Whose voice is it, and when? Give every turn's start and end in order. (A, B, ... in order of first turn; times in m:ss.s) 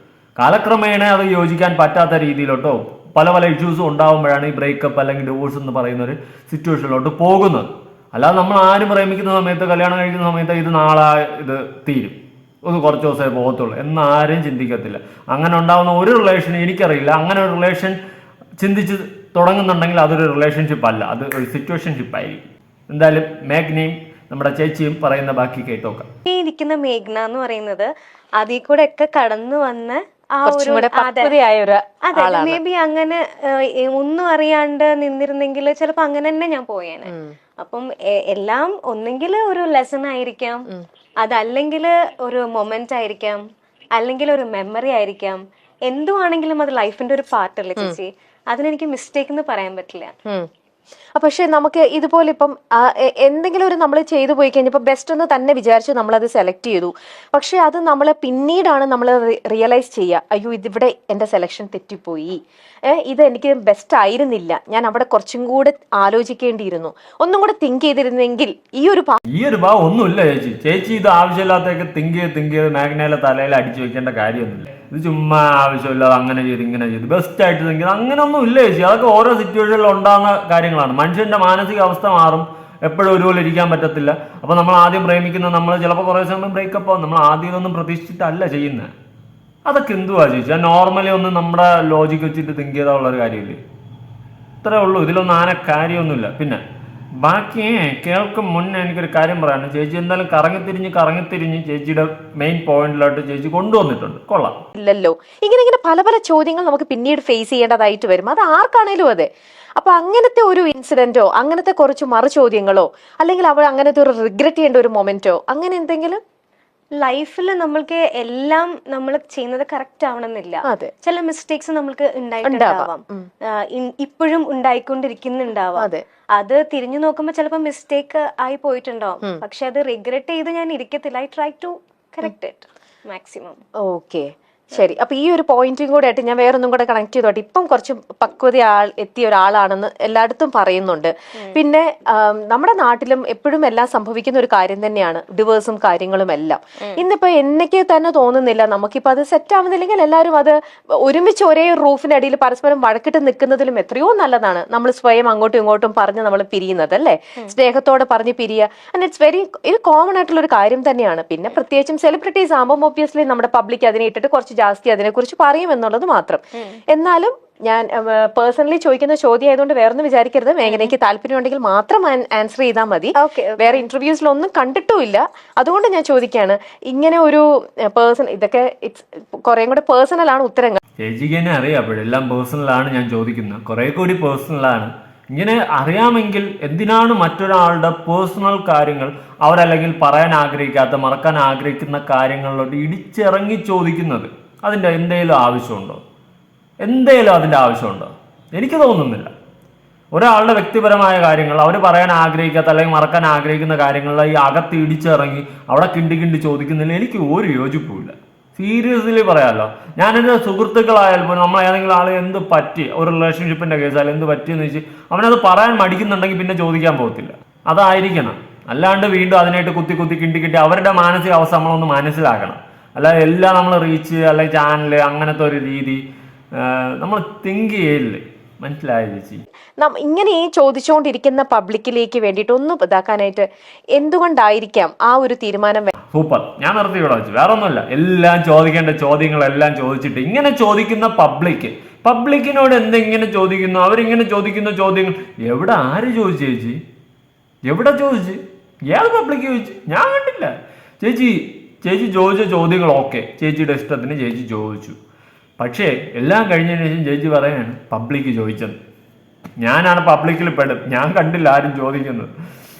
0:00.4-0:18.0 A
0:18.6-0:26.1 A
0:26.2-0:31.3 B
0:30.4-0:32.6 C
0:32.0-0:40.6 B
0:37.1-0:37.3 C
0:41.2-0:43.4 B
0:44.0-0:50.1 B
0:51.2-1:02.4 C
1:02.9-1:09.2 C
1:09.3-1:28.9 A
1:29.6-1:33.6 A
1:34.6-1:36.6 A
1:37.2-1:44.6 A
1:44.7-1:56.2 C
1:57.0-2:13.6 B
2:00.6-2:00.9 C
2:02.4-2:03.3 C
2:05.8-2:06.0 C
2:13.8-2:46.4 C
2:46.9-3:00.8 C
2:50.6-2:50.9 B
2:53.2-2:53.8 B
3:01.0-3:16.0 A
3:16.8-3:19.3 A
3:20.1-3:46.0 A
3:46.6-3:49.4 A
3:49.8-3:55.9 C
3:56.1-4:06.8 A
4:07.6-4:15.0 A
4:15.6-4:18.8 A
4:19.6-4:22.3 A